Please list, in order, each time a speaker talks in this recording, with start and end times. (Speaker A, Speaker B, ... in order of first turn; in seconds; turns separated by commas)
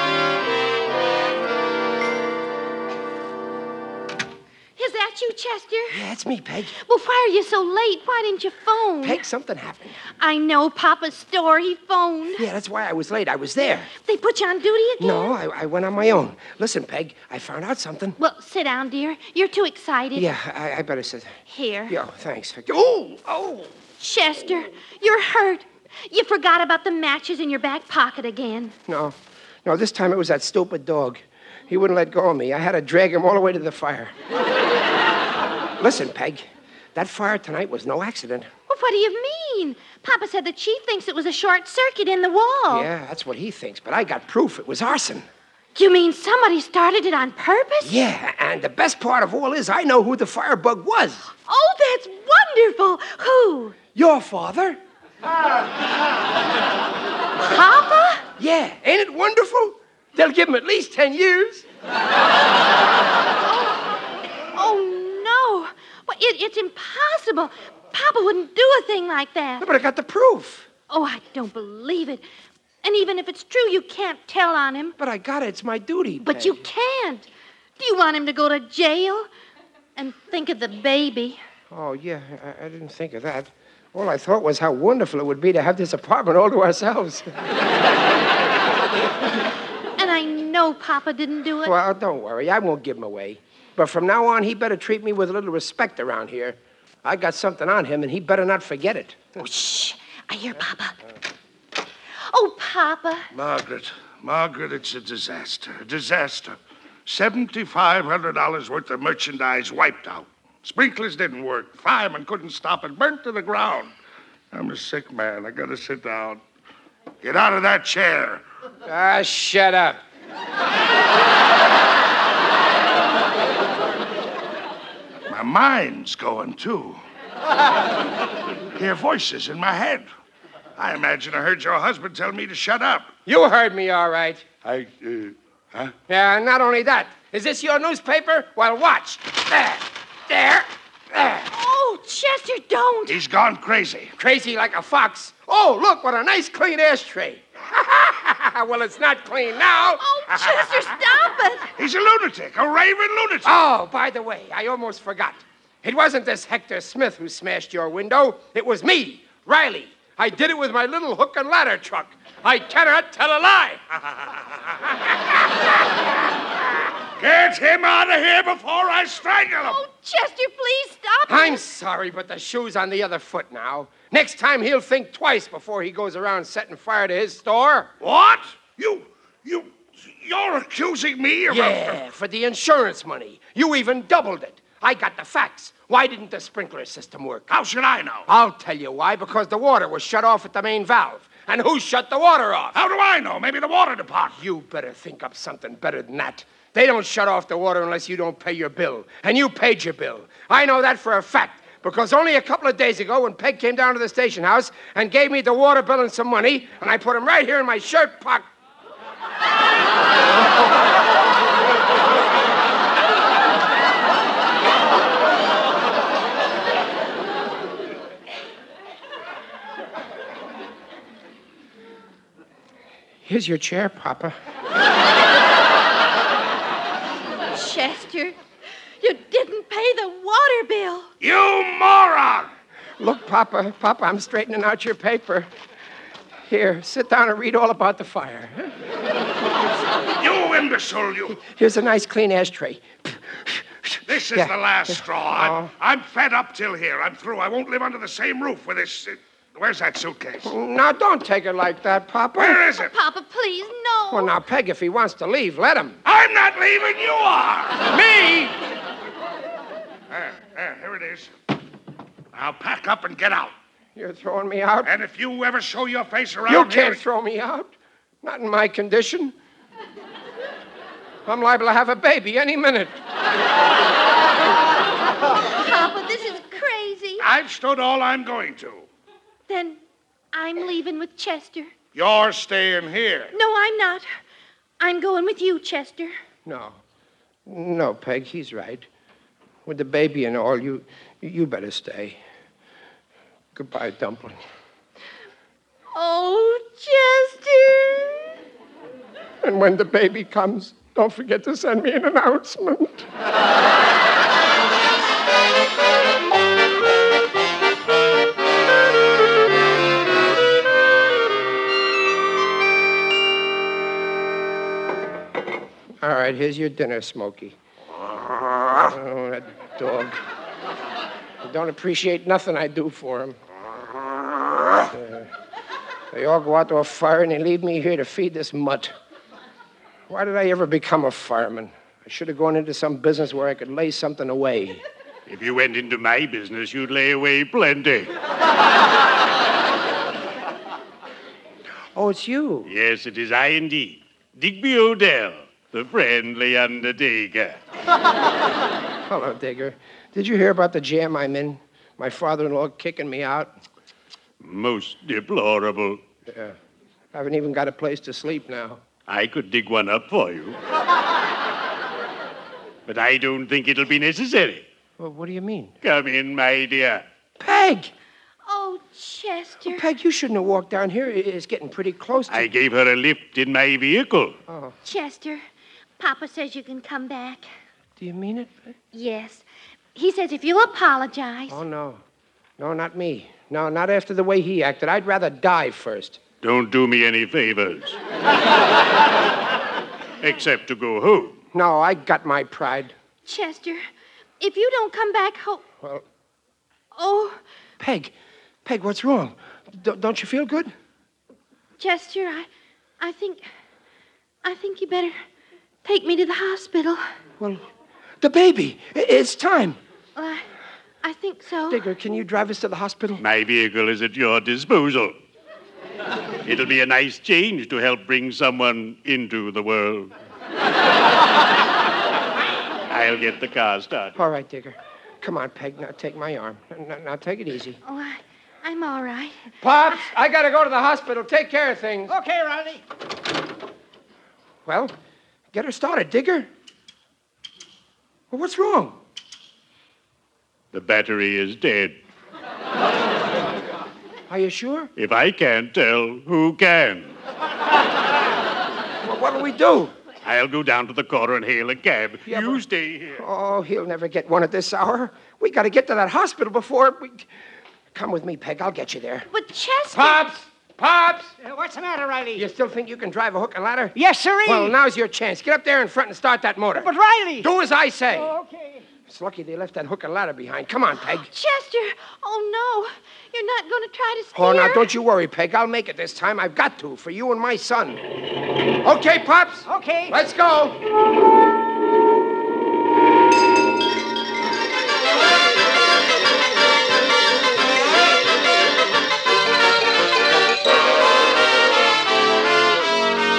Speaker A: 4.8-6.0, Speaker B: 5.9-6.7, Speaker A: 6.8-9.2, Speaker B: 9.0-10.0, Speaker A: 10.2-12.4, Speaker B: 12.4-13.9, Speaker A: 14.0-15.3, Speaker B: 15.0-18.2, Speaker A: 18.2-20.3, Speaker B: 20.1-21.4, Speaker A: 21.5-22.0, Speaker B: 21.9-23.7, Speaker A: 24.0-28.7, Speaker B: 28.9-34.1, Speaker B: 35.8-38.5, Speaker A: 38.7-42.9, Speaker B: 42.7-45.2, Speaker A: 45.7-48.0, Speaker B: 47.8-51.3, Speaker A: 51.5-53.8, Speaker B: 53.9-54.8, Speaker A: 57.4-58.2, Speaker B: 58.4-61.6, Speaker A: 63.4-69.7, Speaker B: 69.6-70.7, Speaker A: 70.9-72.2, Speaker A: 72.8-75.0, Speaker B: 75.0-76.6, Speaker A: 76.2-77.3, Speaker A: 77.8-79.3, Speaker A: 80.0-81.4, Speaker B: 81.7-87.3, Speaker A: 90.0-91.7, Speaker B: 91.6-99.2, Speaker A: 99.4-101.0, Speaker A: 102.3-103.3, Speaker C: 103.3-113.9, Speaker C: 114.5-116.4, Speaker C: 117.2-118.4, Speaker B: 118.8-120.0, Speaker C: 125.3-127.0, Speaker C: 128.7-130.1, Speaker C: 130.8-133.1, Speaker B: 133.2-134.4, Speaker C: 134.7-135.9, Speaker B: 136.1-141.5, Speaker A: 141.5-143.2, Speaker C: 143.1-144.1, Speaker B: 144.2-150.7, Speaker A: 150.0-151.7, Speaker C: 151.8-153.5, Speaker B: 153.4-163.8, Speaker C: 167.2-169.8, Speaker A: 169.6-171.6, Speaker B: 171.3-177.9, Speaker C: 178.0-182.0, Speaker B: 181.5-187.5, Speaker C: 187.5-188.2, Speaker B: 188.3-192.8, Speaker C: 192.7-194.4, Speaker B: 194.3-208.5, Speaker B: 223.2-224.3, Speaker A: 227.5-228.3, Speaker A: 229.0-231.1, Speaker C: 231.2-232.5, Speaker B: 233.0-235.5, Speaker B: 236.5-238.8, Speaker C: 240.2-241.4, Speaker B: 241.4-245.7, Speaker C: 244.1-250.5, Speaker B: 250.4-252.6, Speaker C: 252.4-252.9, Speaker A: 252.8-254.3, Speaker B: 254.1-256.0, Speaker C: 256.0-258.5, Speaker C: 260.1-261.3, Speaker C: 262.3-263.5, Speaker B: 263.9-264.9, Speaker C: 264.8-267.0, Speaker B: 266.5-269.3, Speaker B: 271.2-273.0, Speaker A: 275.5-277.2, Speaker C: 277.2-278.9, Speaker A: 279.5-279.8, Speaker A: 280.3-281.7, Speaker C: 281.9-283.3, Speaker A: 283.3-284.1, Speaker A: 284.8-286.1, Speaker B: 286.4-286.8, Speaker B: 287.4-288.9, Speaker B: 289.6-292.2, Speaker B: 293.5-294.4, Speaker A: 295.9-298.3, Speaker B: 299.4-303.1, Speaker B: 316.0-317.6, Speaker B: 318.2-320.2, Speaker B: 321.4-323.4, Speaker B: 324.7-325.3, Speaker B: 326.1-328.9, Speaker B: 330.1-334.8, Speaker D: 335.3-338.1, Speaker B: 341.9-342.7, Speaker D: 342.6-347.6, Speaker B: 349.1-353.5, Speaker D: 354.4-356.0, Speaker B: 356.3-356.5, Speaker B: 357.1-358.8, Speaker D: 359.1-360.6, Speaker D: 362.9-364.7, Speaker B: 365.0-365.8, Speaker D: 365.8-367.0, Speaker B: 367.4-367.9, Speaker A: 368.5-369.9, Speaker B: 369.6-372.5, Speaker D: 372.3-374.4, Speaker B: 374.5-374.7, Speaker A: 374.8-375.4, Speaker A: 376.0-377.4, Speaker B: 378.0-378.7, Speaker A: 378.9-379.4, Speaker A: 379.9-381.6, Speaker B: 381.5-382.0, Speaker B: 382.6-386.2, Speaker D: 386.4-388.0, Speaker D: 390.2-391.4, Speaker B: 391.5-392.9, Speaker A: 393.2-393.8, Speaker A: 394.4-395.6, Speaker A: 396.9-397.4, Speaker B: 397.8-400.7, Speaker A: 401.8-402.5, Speaker A: 403.0-403.4, Speaker A: 404.4-405.1, Speaker A: 405.8-407.0, Speaker B: 407.4-407.6, Speaker B: 408.2-409.8, Speaker A: 410.1-410.4, Speaker A: 411.0-411.8, Speaker B: 411.7-413.2, Speaker D: 413.2-415.2, Speaker D: 416.4-420.1, Speaker D: 422.9-424.1, Speaker B: 424.1-427.8, Speaker A: 427.8-429.4, Speaker B: 429.6-432.1, Speaker E: 432.1-432.8, Speaker B: 434.6-434.9, Speaker B: 435.5-436.5, Speaker B: 438.3-439.0, Speaker D: 440.7-442.0, Speaker B: 444.3-444.9, Speaker D: 444.9-447.2, Speaker B: 449.0-449.9, Speaker D: 450.2-453.2, Speaker B: 452.3-452.6, Speaker B: 453.1-457.3, Speaker B: 457.9-459.3, Speaker A: 459.3-460.2, Speaker B: 459.9-461.3, Speaker E: 461.4-462.4, Speaker B: 462.3-468.3, Speaker E: 463.9-464.8, Speaker E: 466.8-467.5, Speaker E: 468.1-468.8, Speaker B: 469.1-471.3, Speaker A: 471.0-474.9, Speaker B: 474.3-478.0, Speaker B: 478.8-480.8, Speaker E: 479.6-480.1